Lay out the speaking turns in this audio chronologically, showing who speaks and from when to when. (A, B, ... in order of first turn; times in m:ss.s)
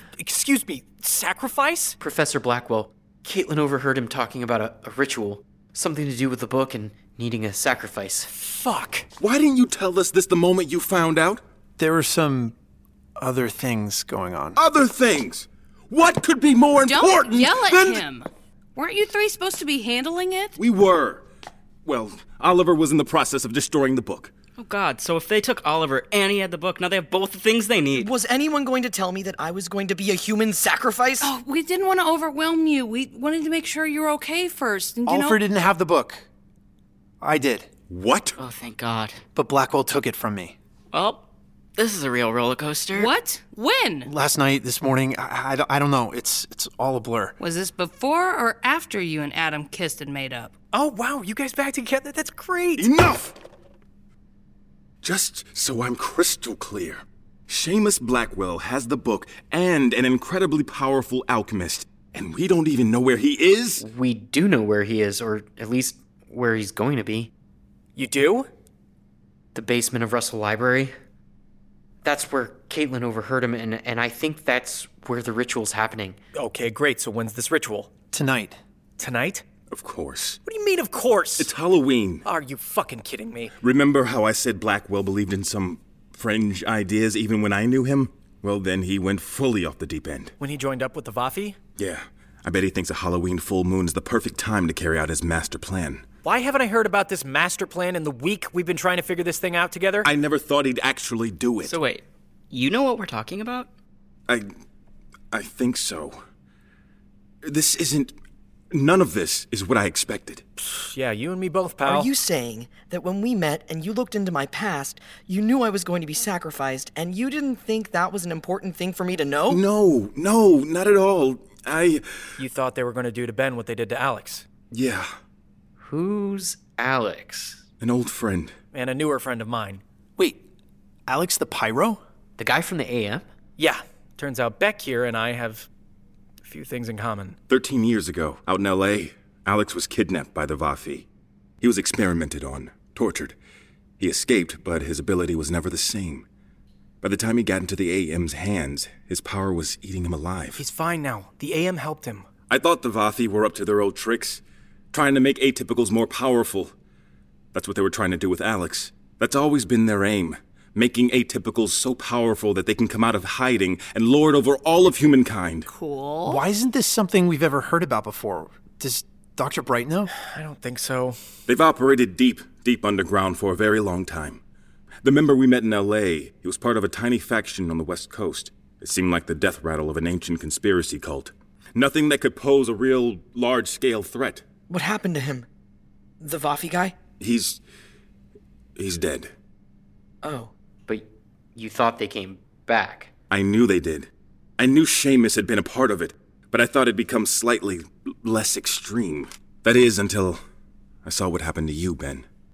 0:00.2-0:02.0 A
0:02.0-0:08.3 B
0:08.3-0:09.1 A
0:09.2-0:11.4 C
0:11.8-0:12.5 D
0:13.2-0:14.6 D
0:14.6-0:18.0 C
0:16.8-0:20.6 E
0:20.6-0:21.2 C
0:21.8-0:24.3 C
0:24.6-0:28.1 F
0:27.9-0:31.3 G
0:31.2-0:35.4 E
0:35.0-0:36.2 D
0:37.2-0:37.7 D
0:37.9-0:38.3 C
0:38.4-0:39.2 F
0:39.3-0:40.6 D
0:40.9-0:41.2 F
0:41.8-0:43.1 F
0:42.9-0:44.1 E
0:44.0-0:47.3 D
0:47.4-0:50.5 E
0:50.7-0:52.9 A
0:52.8-0:53.3 C
0:55.0-1:03.8 C
1:03.8-1:07.3 B
1:08.0-1:08.5 A
1:09.5-1:10.9 B
1:12.0-1:16.2 B
1:16.3-1:17.9 A
1:18.1-1:18.6 D
1:19.0-1:19.4 A
1:19.7-1:20.4 C
1:20.4-1:21.5 A
1:21.4-1:22.2 C
1:22.2-1:23.5 A
1:23.6-1:30.3 C
1:30.4-1:31.6 A
1:31.8-1:36.0 C
1:36.2-1:40.1 A
1:40.0-1:41.7 C
1:41.6-1:43.7 F
1:45.3-1:46.2 C
1:47.4-1:48.2 C
1:48.7-1:50.4 C
1:50.6-1:52.1 A
1:51.8-1:59.6 G
1:59.5-2:02.4 C
2:02.4-2:04.5 A
2:04.7-2:05.1 C
2:05.8-2:07.7 B
2:07.8-2:08.6 C
2:08.7-2:09.8 A
2:10.2-2:10.4 D
2:11.1-2:12.0 D
2:12.4-2:13.3 B
2:13.6-2:15.7 A
2:16.4-2:17.4 A
2:17.5-2:21.1 C
2:21.6-2:23.4 C
2:24.0-2:26.2 C
2:27.0-2:30.6 C
2:30.6-2:32.3 A
2:32.5-2:36.7 C
2:37.5-2:45.7 C
2:45.7-2:46.4 E
2:46.2-2:50.1 D
2:50.1-2:51.2 A
2:51.5-2:54.4 C
2:55.0-3:04.4 C
3:04.7-3:05.4 G
3:06.2-3:07.0 G
3:07.2-3:07.6 C
3:08.8-3:09.3 C
3:10.2-3:10.5 G
3:10.9-3:13.1 B
3:13.3-3:20.4 C
3:21.0-3:22.2 C